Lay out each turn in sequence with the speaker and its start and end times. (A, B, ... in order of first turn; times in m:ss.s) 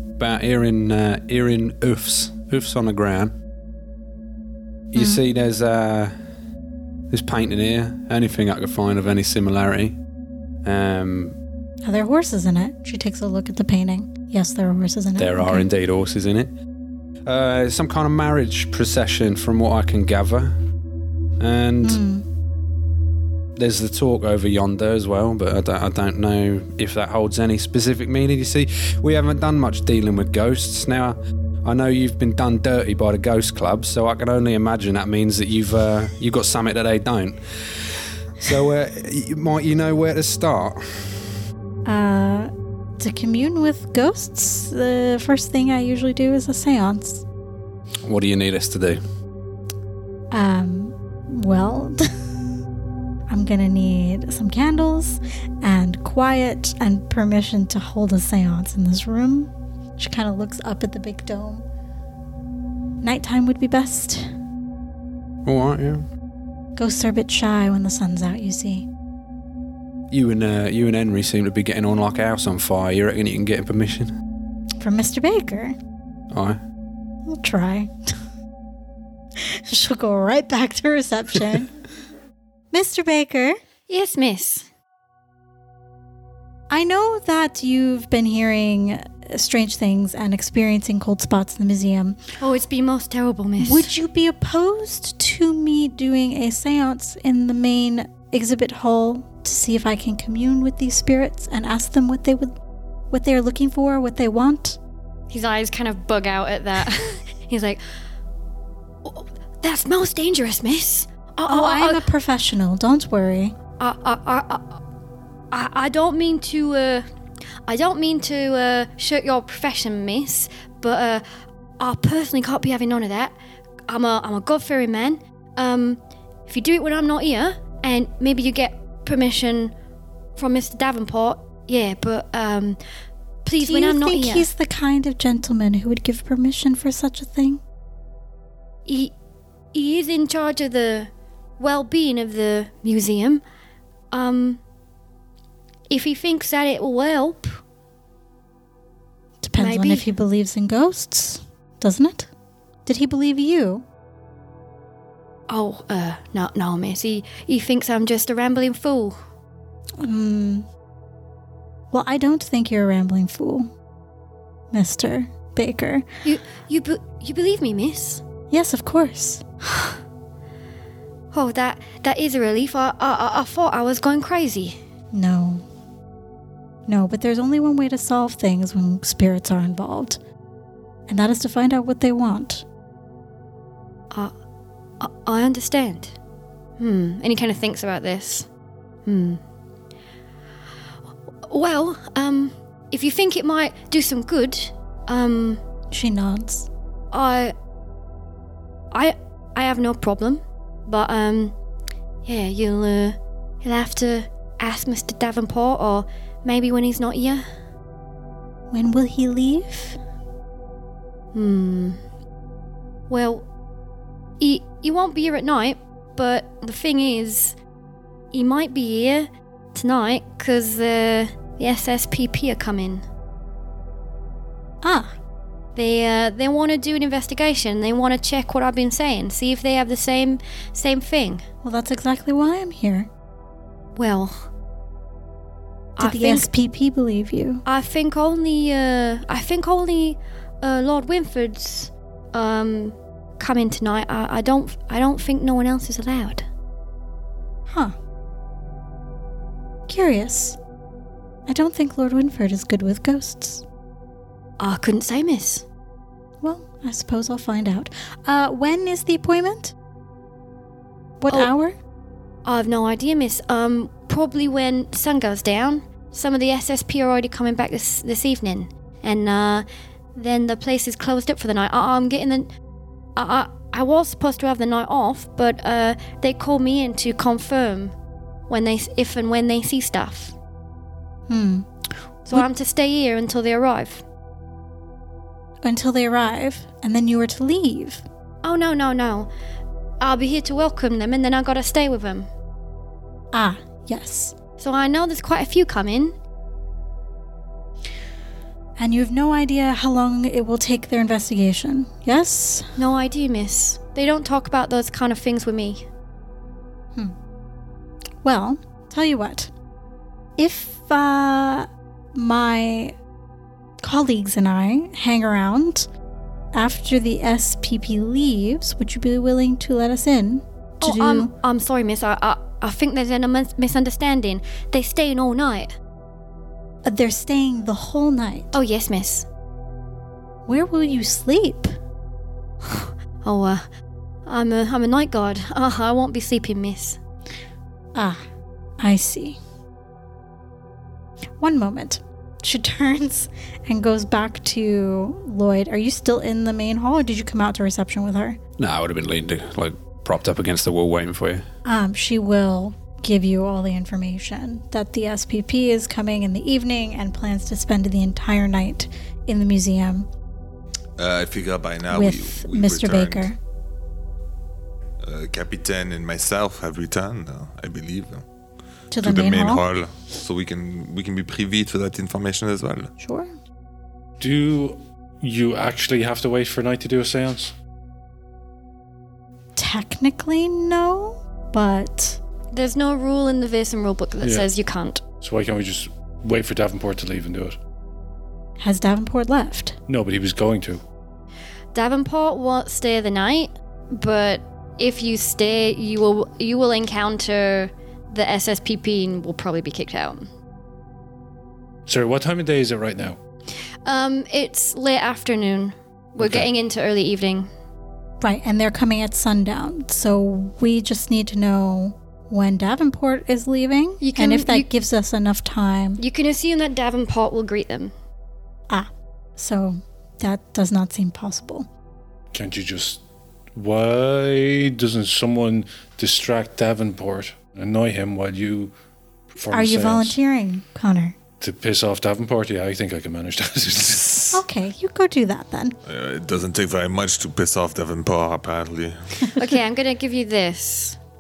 0:00.2-0:03.4 A
0:04.9-0:06.1 A
0:05.0-0:05.2 B
0:07.1-0:10.0 A
0:10.6-0:11.4 A
0:11.8-0:15.7 B
0:15.2-0:16.5 A
0:17.2-0:20.6 A
0:21.4-0:22.0 A
0:21.8-0:22.2 B
0:23.6-0:41.3 A
0:41.8-0:47.2 B
0:48.0-0:49.0 A
0:50.3-0:52.1 B
0:53.3-1:01.6 B
1:03.0-1:04.3 B
1:05.4-1:06.0 A
1:06.8-1:08.9 B
1:10.1-1:14.1 A
1:14.8-1:15.7 B
1:16.3-1:16.6 A
1:17.2-1:17.9 B
1:19.4-1:21.7 B
1:22.7-1:23.6 B
1:23.9-1:24.7 C
1:26.7-1:32.2 B
1:32.4-1:33.9 C
1:33.6-1:42.6 B
1:43.1-1:44.8 B
1:45.3-1:47.8 C
1:49.0-1:52.0 C
1:51.4-1:53.5 B
1:53.8-1:54.8 C
1:55.5-1:57.0 C
1:57.6-2:01.2 C
2:01.8-2:03.4 C
2:03.9-2:09.7 C
2:10.4-2:12.8 C
2:13.4-2:14.5 C
2:13.6-2:17.6 B
2:18.8-2:19.1 C
2:19.7-2:23.4 C
2:24.1-2:24.6 C
2:25.9-2:27.6 C
2:29.4-2:32.3 B
2:29.6-2:30.2 C
2:32.8-2:33.8 B
2:35.5-2:39.2 C
2:40.0-2:40.7 B
2:41.9-2:43.7 B
2:44.7-2:46.0 B
2:46.2-2:48.2 C
2:48.5-2:49.4 B
2:51.3-2:54.8 C
2:55.1-2:55.6 B
2:56.8-3:00.2 B
3:01.1-3:02.6 B
3:05.0-3:06.2 C
3:06.8-3:08.5 C
3:09.0-3:09.4 C
3:11.5-3:15.6 C
3:15.9-3:16.7 B
3:17.1-3:17.5 C
3:18.9-3:21.5 C
3:22.2-3:27.4 C
3:28.7-3:30.0 B
3:31.3-3:32.0 C
3:33.1-3:33.5 C
3:34.4-3:37.6 C
3:38.3-3:43.0 C
3:44.8-3:45.2 B
3:45.7-3:51.4 C
3:51.6-3:53.1 B
3:53.9-3:54.5 C
3:56.0-3:57.6 B
3:56.0-3:56.5 C
3:57.6-4:06.4 C
4:07.7-4:07.9 B
4:09.9-4:10.6 B
4:11.5-4:13.6 B
4:14.6-4:15.6 C
4:16.4-4:19.7 B
4:21.2-4:21.8 B
4:22.4-4:32.5 C
4:33.2-4:37.9 C
4:38.5-4:40.3 C
4:41.3-4:42.4 B
4:42.3-4:44.0 C
4:45.6-4:48.0 B
4:48.4-4:49.3 C
4:50.0-4:52.3 C
4:53.3-4:54.3 B
4:54.6-4:56.1 C
4:58.8-5:02.7 B
5:02.8-5:05.8 C
5:08.2-5:09.5 B
5:10.4-5:13.0 B
5:13.8-5:15.9 B
5:16.5-5:21.3 B
5:20.8-5:25.8 C
5:26.8-5:28.5 B
5:28.5-5:29.3 C
5:30.4-5:31.7 B
5:32.7-5:33.6 C
5:34.2-5:37.0 C
5:37.9-5:38.2 B
5:38.8-5:39.4 B
5:41.4-5:48.4 B
5:48.6-5:51.5 A
5:51.6-6:00.1 B
6:01.0-6:03.3 D
6:01.9-6:03.4 B
6:05.0-6:08.2 D
6:08.9-6:09.6 B
6:09.0-6:12.9 D
6:13.0-6:13.3 B
6:14.2-6:17.5 E
6:19.6-6:22.2 B
6:22.5-6:25.0 C
6:24.2-6:24.5 E
6:25.2-6:27.6 E
6:28.6-6:29.8 B
6:29.9-6:30.8 E
6:31.7-6:40.3 C
6:41.8-6:43.2 E
6:43.8-6:47.5 C
6:46.2-6:46.5 E
6:48.2-6:56.0 B
6:54.0-6:54.7 C
6:56.0-6:57.9 C
6:58.7-7:01.7 B
7:02.3-7:03.0 E
7:03.5-7:08.7 E
7:09.3-7:10.2 E
7:09.5-7:11.2 B
7:11.4-7:14.4 E
7:14.3-7:15.8 B
7:15.8-7:19.2 D
7:19.4-7:21.0 C